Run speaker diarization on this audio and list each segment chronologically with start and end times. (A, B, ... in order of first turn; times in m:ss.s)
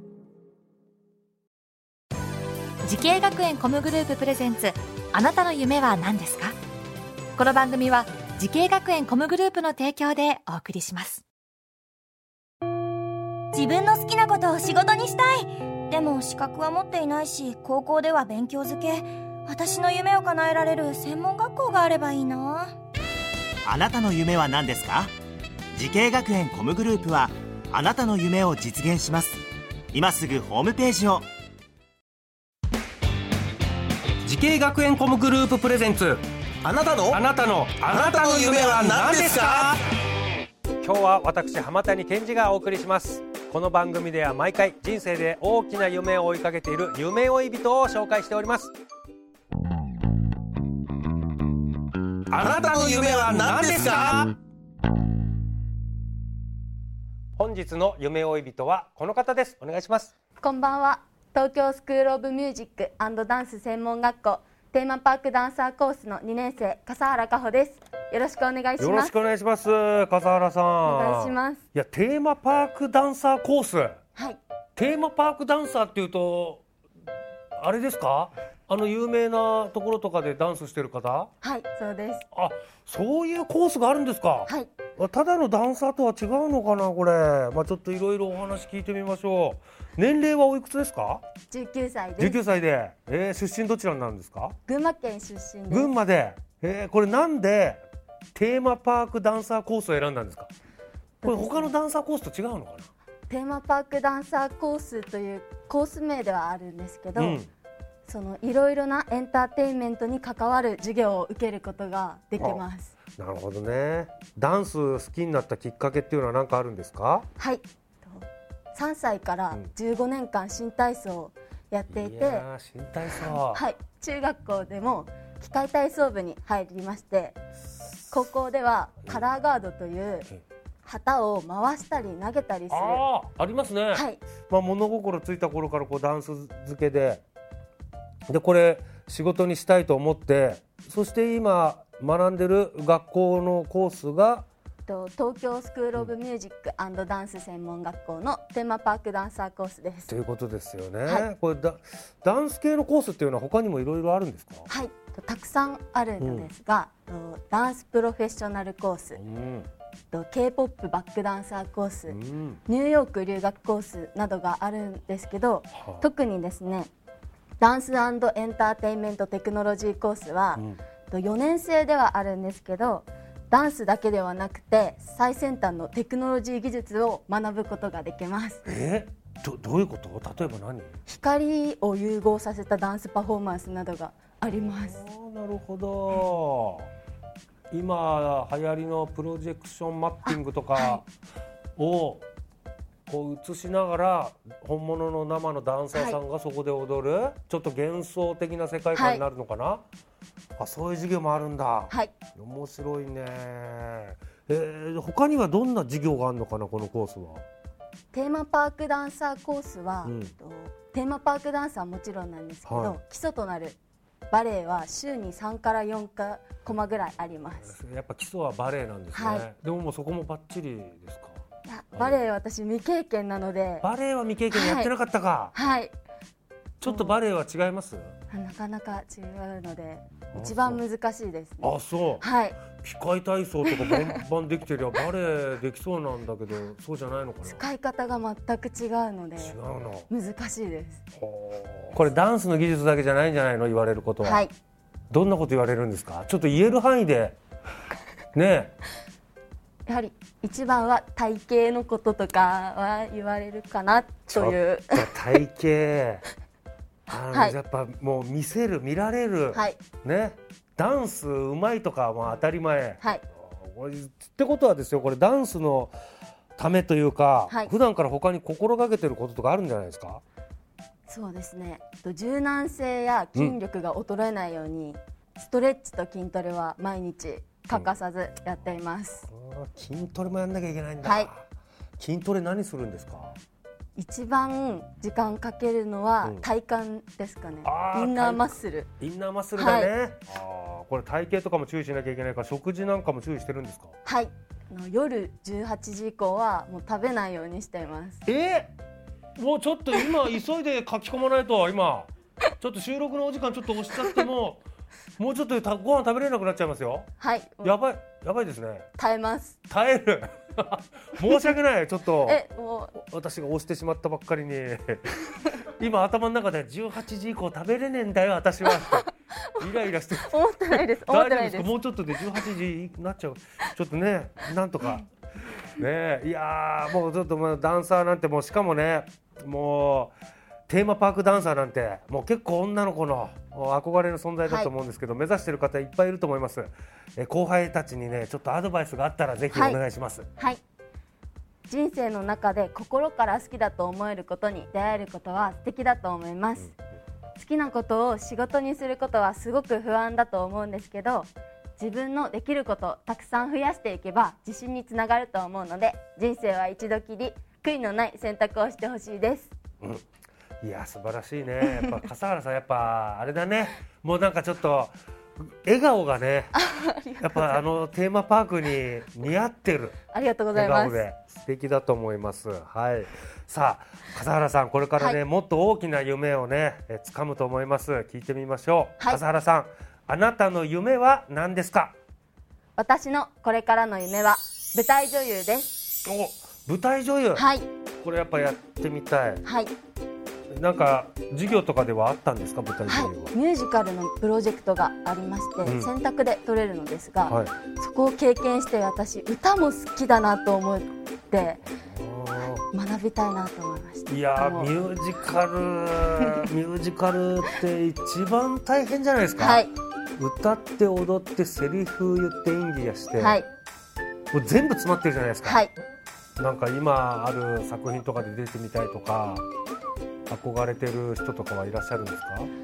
0:02.8-0:06.6 A
0:07.4-0:11.2 A
0:13.5-0:22.8 B
0:23.6-0:25.1 C
0:25.7-0:31.3 C
0:34.2-0:36.2 D
0:36.7-0:37.2 E
0:37.1-0:39.7 D
0:37.8-0:39.8 E
0:40.8-0:48.7 D
0:52.3-0:54.3 E
0:57.4-1:00.1 D
1:00.4-1:09.1 F
1:08.8-1:14.0 D
1:10.8-1:11.6 F
1:14.2-1:14.4 F
1:14.8-1:16.6 D
1:17.6-1:21.3 D
1:21.4-1:22.3 F
1:22.3-1:31.2 D
1:31.5-1:32.4 F
1:32.2-1:34.6 D
1:34.7-1:35.9 F
1:35.7-1:37.8 D
1:38.4-1:40.5 D
1:41.2-1:41.7 F
1:41.2-1:42.9 D
1:43.3-1:47.4 F
1:47.2-1:47.5 D
1:48.1-1:52.9 F
1:53.2-1:57.3 D
1:57.4-2:02.4 F
2:01.9-2:03.6 D
2:03.5-2:07.4 F
2:08.1-2:10.3 F
2:10.8-2:13.0 F
2:12.7-2:17.2 D
2:13.9-2:14.2 F
2:18.3-2:24.4 D
2:24.9-2:30.1 F
2:30.1-2:34.7 D
2:34.7-2:39.2 F
2:36.2-2:36.5 D
2:39.2-2:39.7 D
2:40.1-2:46.9 F
2:42.1-2:42.6 D
2:45.8-2:46.0 D
2:47.6-2:58.6 F
2:58.6-3:01.0 D
3:01.1-3:05.0 F
3:04.5-3:06.9 D
3:07.7-3:11.0 D
3:10.3-3:11.0 F
3:11.8-3:12.2 D
3:13.1-3:19.8 D
3:15.9-3:16.2 F
3:18.9-3:19.2 F
3:20.6-3:27.4 D
3:28.1-3:33.8 F
3:30.0-3:30.3 D
3:32.7-3:33.0 D
3:34.3-3:37.7 F
3:37.6-3:41.4 D
3:39.1-3:39.5 F
3:41.6-3:43.9 F
3:41.9-3:42.2 D
3:43.8-3:45.5 D
3:44.5-3:44.9 F
3:45.5-3:45.9 F
3:46.8-3:48.1 D
3:46.8-3:47.2 F
3:48.3-3:52.6 F
3:50.3-3:50.8 D
3:51.6-3:57.6 D
3:53.7-3:54.2 F
3:57.5-3:59.6 F
3:59.4-4:00.1 D
4:00.1-4:01.0 F
4:01.2-4:04.5 D
4:04.2-4:04.5 F
4:05.1-4:07.4 D
4:08.3-4:08.7 D
4:09.9-4:15.1 F
4:14.3-4:16.2 D
4:17.1-4:26.0 D
4:17.3-4:17.6 F
4:19.5-4:19.8 F
4:26.6-4:30.2 D
4:31.1-4:39.3 F
4:39.3-4:41.5 D
4:41.0-4:41.3 F
4:42.0-4:43.4 D
4:44.0-4:48.9 F
4:47.6-4:53.9 D
4:49.6-4:49.9 F
4:54.0-4:58.2 F
4:58.3-4:58.7 D
4:59.4-5:02.1 D
5:02.6-5:04.6 D
5:05.2-5:07.1 D
5:07.2-5:07.8 F
5:07.6-5:08.9 D
5:09.0-5:09.6 F
5:09.7-5:12.4 D
5:12.2-5:13.0 F
5:13.0-5:25.1 D
5:18.7-5:19.0 F
5:20.2-5:21.7 F
5:25.8-5:30.2 D
5:30.7-5:40.3 D
5:39.5-5:39.8 F
5:40.4-5:40.6 F
5:41.7-5:46.7 F
5:47.4-5:59.5 F
6:00.6-6:05.0 D
6:01.6-6:02.0 F
6:05.6-6:06.6 D
6:06.6-6:07.6 F
6:07.2-6:10.0 D
6:10.1-6:11.0 F
6:10.5-6:21.9 D
6:22.8-6:25.8 F
6:26.0-6:27.5 D
6:27.4-6:27.7 F
6:28.0-6:29.4 D
6:29.4-6:29.7 F
6:30.5-6:33.3 D
6:32.9-6:41.6 F
6:35.6-6:35.9 D
6:37.3-6:37.5 D
6:41.7-6:42.6 D
6:42.7-6:44.7 F
6:44.1-6:53.4 D
6:49.4-6:49.7 F
6:53.2-6:53.5 F
6:54.3-6:55.7 D
6:55.4-6:55.7 F
6:56.4-6:59.4 D
7:00.3-7:02.5 D